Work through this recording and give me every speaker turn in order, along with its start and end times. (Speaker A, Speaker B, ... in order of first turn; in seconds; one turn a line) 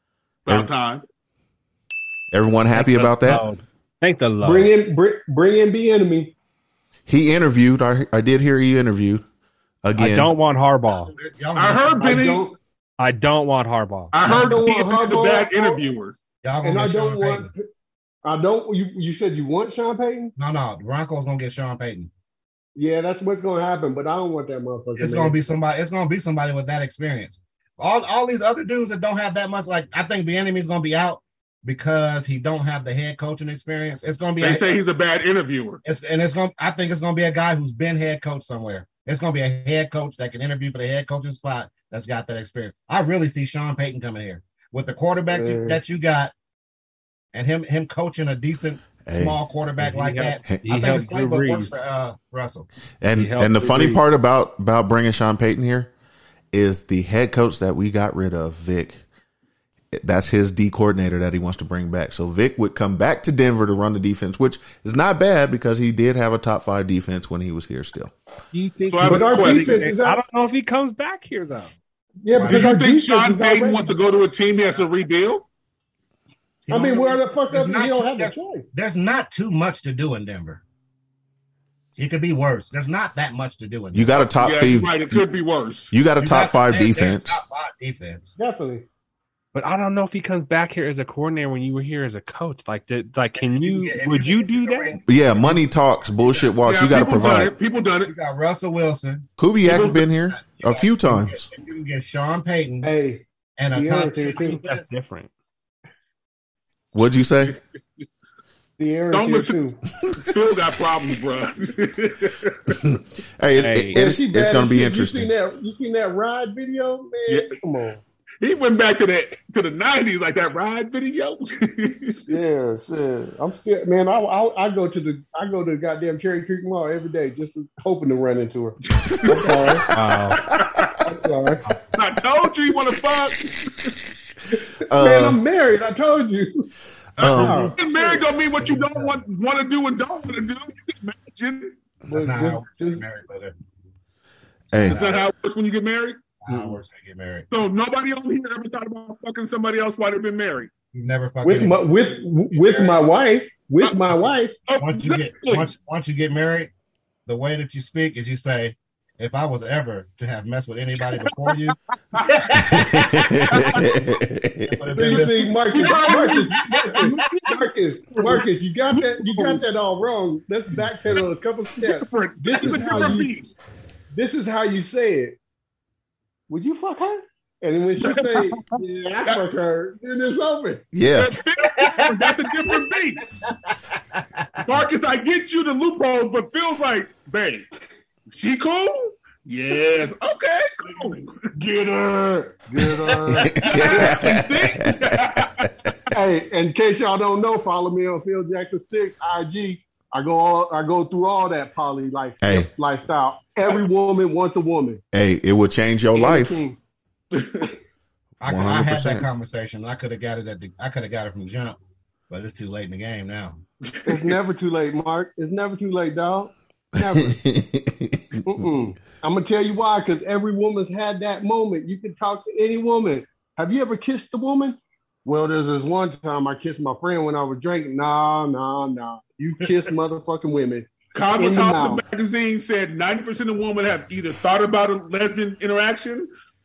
Speaker A: 0.5-1.0
Speaker B: 2.3-3.4
Speaker C: 2.7-4.7
Speaker D: 4.4-6.3
Speaker B: 7.1-9.2
Speaker B: 9.8-10.3
Speaker C: 10.0-11.1
Speaker E: 10.9-12.3
Speaker A: 11.6-12.5
Speaker D: 12.0-12.6
Speaker C: 13.0-14.1
Speaker A: 14.1-16.1
Speaker D: 14.2-15.8
Speaker E: 16.4-17.5
Speaker D: 16.6-17.6
Speaker D: 18.2-20.3
Speaker E: 20.4-22.1
Speaker D: 22.8-25.4
Speaker E: 25.0-34.7
Speaker A: 34.4-35.8
Speaker E: 35.8-46.3
Speaker D: 45.3-45.8
Speaker E: 47.3-52.7
Speaker B: 49.0-49.4
Speaker C: 49.8-51.7
Speaker B: 53.0-55.9
Speaker C: 53.1-54.0
Speaker B: 56.5-59.0
Speaker B: 59.9-68.1
Speaker C: 68.5-71.7
Speaker A: 68.9-69.8
Speaker D: 69.0-70.2
Speaker D: 72.2-74.0
Speaker E: 72.3-72.8
Speaker A: 72.4-75.5
Speaker E: 76.7-80.6
Speaker D: 76.7-78.7
Speaker E: 82.0-84.3
Speaker B: 83.9-85.2
Speaker A: 84.3-85.9
Speaker B: 85.9-87.4
Speaker E: 86.2-88.4
Speaker D: 88.4-88.8
Speaker C: 89.5-95.0
Speaker E: 93.4-95.7
Speaker B: 95.1-97.5
Speaker E: 96.2-96.5
Speaker A: 96.7-98.1
Speaker E: 98.1-102.9
Speaker B: 99.4-101.5
Speaker A: 99.7-100.0
Speaker D: 102.8-104.6
Speaker E: 103.6-104.9
Speaker C: 104.4-105.3
Speaker B: 106.9-107.6
Speaker D: 108.8-109.8
Speaker A: 109.1-109.6
Speaker A: 110.1-112.8
Speaker B: 112.7-115.3
Speaker C: 113.6-114.0
Speaker D: 113.9-118.0
Speaker A: 117.3-117.6
Speaker A: 118.4-122.2
Speaker D: 122.3-129.9
Speaker A: 128.9-129.8
Speaker C: 129.9-130.4
Speaker A: 130.4-130.9
Speaker D: 131.0-131.6
Speaker A: 131.9-133.9
Speaker B: 134.9-135.4
Speaker D: 134.9-136.7
Speaker B: 137.2-137.7
Speaker A: 137.2-141.8
Speaker D: 137.2-138.2
Speaker E: 138.6-139.2
Speaker D: 142.1-143.0
Speaker E: 142.1-143.5
Speaker E: 144.7-145.3
Speaker B: 144.7-145.0
Speaker A: 144.9-146.2
Speaker E: 146.4-147.5
Speaker A: 147.5-150.7
Speaker E: 150.9-153.0
Speaker D: 151.4-154.6
Speaker A: 154.7-155.7
Speaker E: 154.8-156.7
Speaker E: 157.2-163.8
Speaker A: 162.1-162.4
Speaker B: 162.6-165.2
Speaker E: 164.7-167.0
Speaker D: 164.9-173.3
Speaker A: 165.7-169.6
Speaker A: 171.8-173.6
Speaker D: 174.1-175.4
Speaker D: 176.5-180.8
Speaker A: 178.0-179.4
Speaker B: 180.9-181.3
Speaker A: 181.1-183.5
Speaker E: 181.6-182.8
Speaker E: 183.4-184.6
Speaker A: 184.6-187.7
Speaker A: 188.3-191.4
Speaker D: 191.5-194.2
Speaker E: 192.8-194.0
Speaker B: 193.4-195.7
Speaker A: 193.7-195.7
Speaker D: 196.1-205.0
Speaker B: 202.4-202.7
Speaker B: 205.1-206.6
Speaker D: 206.1-206.8
Speaker A: 207.3-207.7
Speaker E: 208.4-211.8
Speaker B: 208.4-209.3
Speaker E: 212.3-213.6
Speaker A: 213.9-214.4
Speaker D: 214.1-217.4
Speaker B: 217.0-218.7
Speaker D: 218.4-232.0
Speaker A: 231.1-236.3